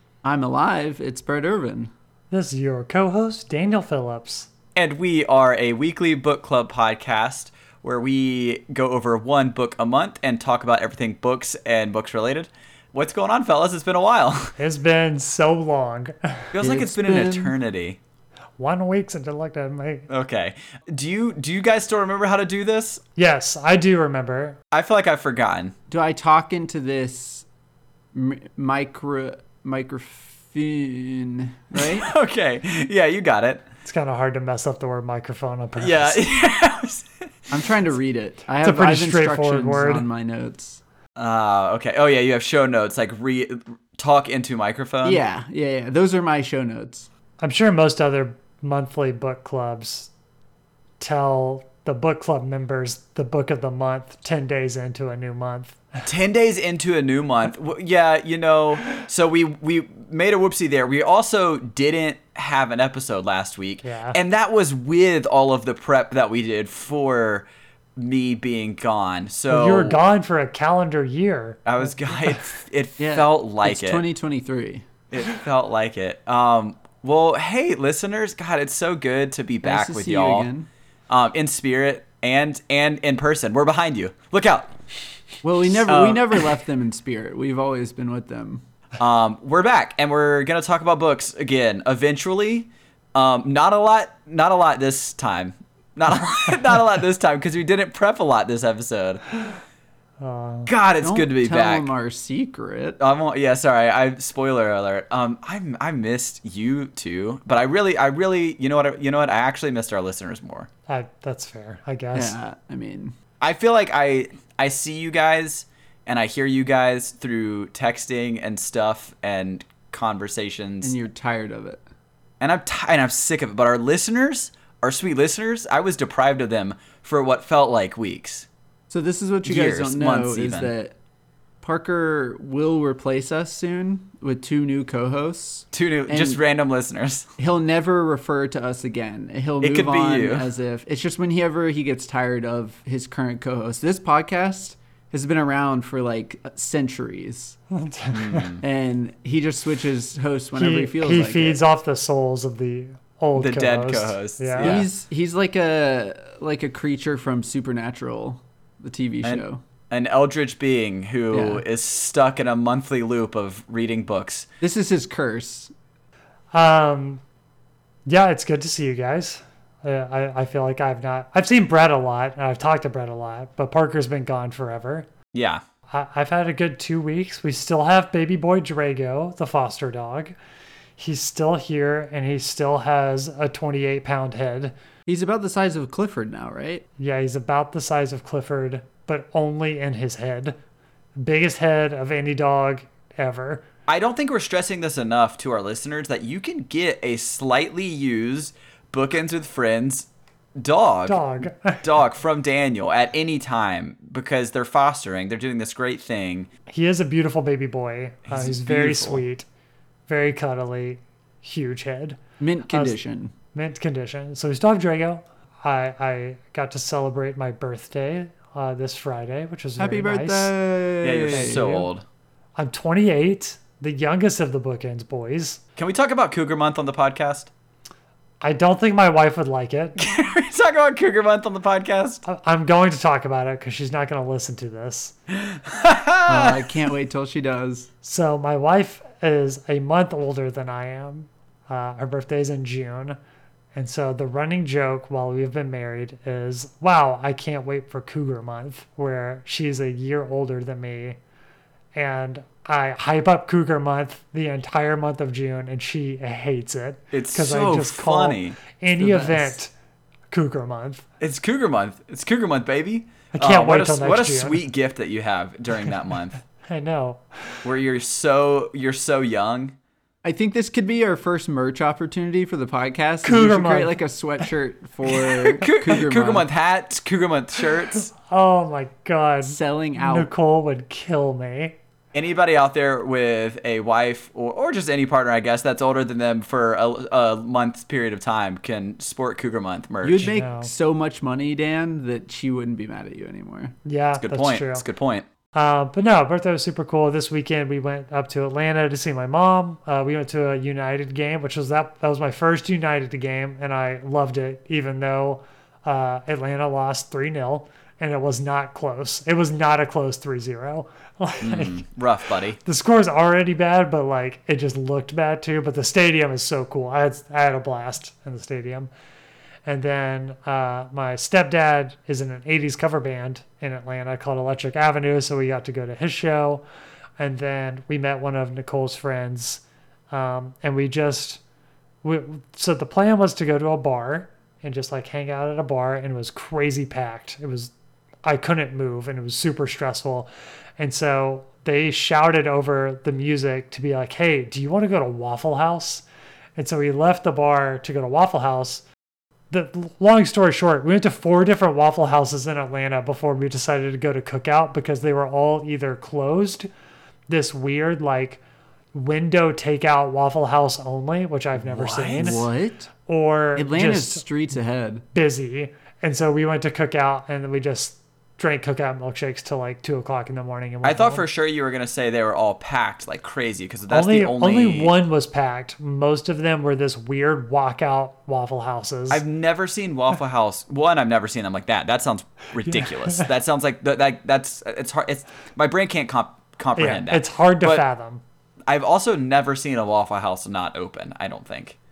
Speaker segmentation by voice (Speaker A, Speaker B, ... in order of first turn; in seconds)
Speaker A: 0.2-1.9, 16.6-17.5, 25.9-27.4, 28.1-32.1, 37.5-40.8, 45.0-47.1, 73.0-74.9, 79.6-80.7, 85.4-88.6, 101.0-103.0, 112.1-113.1, 120.8-121.8, 128.9-130.9, 131.6-136.4, 137.4-147.6, 148.6-151.6, 154.6-159.6, 161.3-161.6, 164.6-165.7, 185.1-186.8, 212.4-213.3, 219.8-221.6, 236.3-237.9, 259.0-259.5, 270.2-276.4, 279.4-280.3, 290.0-293.7, 362.2-362.9, 363.6-365.0
Speaker B: 2.3-4.5, 14.6-16.5, 18.6-20.1, 23.2-24.6, 33.8-36.2, 38.6-40.0, 47.4-50.1, 51.0-56.0, 63.8-64.2, 69.5-71.6, 100.2-100.7, 110.9-112.4, 147.7-148.4, 150.6-154.7, 166.5-167.2, 168.1-175.1, 175.9-180.3, 181.0-184.7, 187.0-190.6, 191.2-193.6, 201.1-201.8, 206.7-209.4, 210.1-212.9, 213.5-220.5, 221.3-221.9, 222.6-225.6, 228.4-229.9, 232.2-235.1, 238.0-243.2, 243.7-251.2, 251.9-259.7, 260.3-261.0, 263.3-264.6, 266.7-267.6, 273.2-273.9, 278.1-281.7, 290.2-290.7, 293.9-294.8, 295.5-311.8, 312.6-318.9, 319.6-326.6, 327.2-331.4, 332.0-337.7, 338.2-346.0, 346.6-348.8, 349.5-356.7, 357.3-358.4, 358.9-362.4, 363.1-364.2, 365.1-371.2, 373.9-379.2, 382.6-383.2, 386.8-388.2
Speaker C: 4.8-14.5, 16.5-18.0, 20.1-23.0, 24.7-25.7, 31.8-33.6, 35.8-37.7, 41.2-45.2, 56.0-70.0, 71.7-74.0, 75.1-80.5, 81.1-84.8, 85.8-86.4, 89.0-99.2, 100.7-101.9, 103.0-110.7, 113.4-120.9, 122.4-128.5, 129.4-130.7, 135.7-137.3, 139.6-140.5, 148.1-148.6, 153.3-154.9, 159.2-164.4, 175.3-175.6, 193.9-200.1, 200.6-206.5, 208.3-209.2, 221.0-222.0, 225.8-227.5, 230.0-232.2, 235.3-236.6, 257.1-258.6, 261.2-266.4, 267.6-269.7, 275.5-278.1, 282.1-290.3, 294.2-295.2, 311.4-312.6, 361.6-362.4, 370.8-374.9, 379.1-387.8, 388.7-391.8